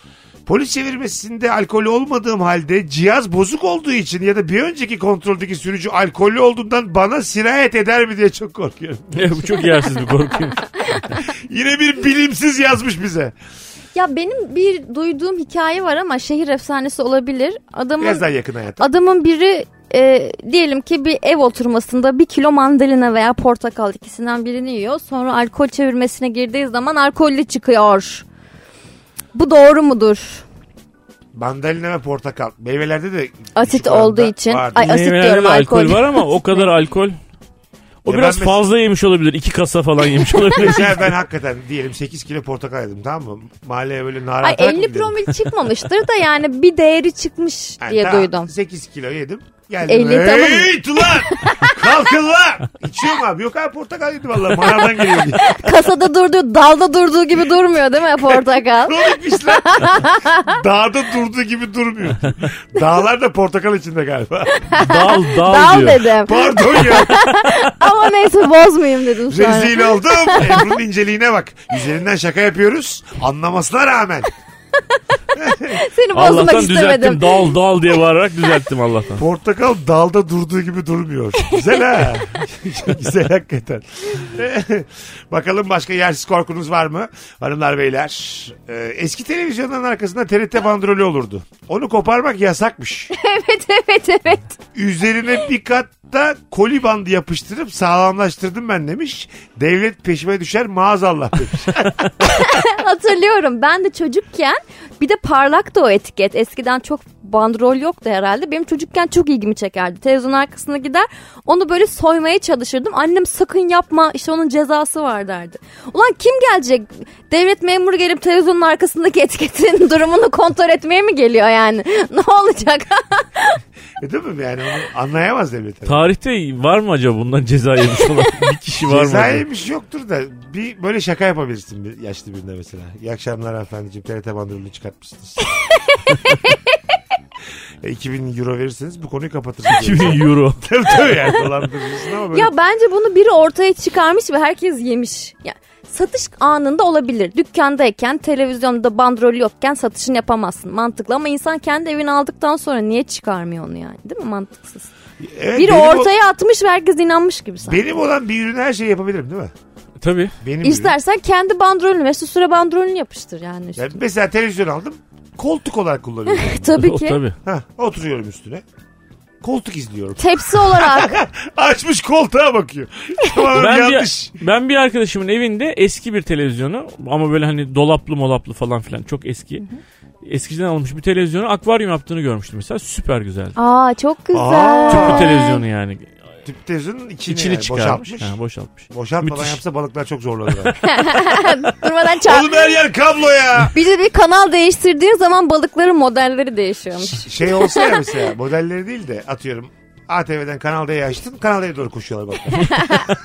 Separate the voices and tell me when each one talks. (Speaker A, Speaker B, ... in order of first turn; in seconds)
Speaker A: 0.5-9.7, 11.1-13.3, 18.0-18.9, 31.3-34.9, 38.0-38.6, 40.5-45.2, 47.8-55.6, 58.7-64.7, 66.2-67.3, 69.3-74.3, 75.3-75.8, 79.2-93.1, 94.7-102.3, 124.0-126.0, 128.9-135.4, 137.8-142.5, 155.2-156.1, 157.6-159.5, 160.4-160.9, 163.8-166.8, 167.4-168.6, 169.4-174.3, 184.3-185.3, 186.4-188.3, 188.9-190.8, 192.2-193.7, 197.0-203.1
Speaker B: 9.1-11.1, 34.8-37.2, 38.0-41.1, 64.7-66.1, 76.1-79.2, 125.8-129.4, 139.7-140.6, 160.0-160.3, 166.7-167.4, 173.5-179.6, 180.2-183.5, 184.9-186.1, 187.3-189.6
Speaker C: 13.9-18.2, 18.8-28.2, 29.3-30.4, 33.5-36.7, 44.4-48.5, 49.9-51.8, 55.4-60.5, 64.6-70.7, 75.6-77.5, 93.1-94.6, 102.2-123.6, 135.5-136.7, 142.3-154.9, 155.5-157.8, 160.6-164.0, 166.3-167.2, 170.2-171.2, 183.6-185.6, 190.8-192.7, 193.7-198.0, 202.6-203.1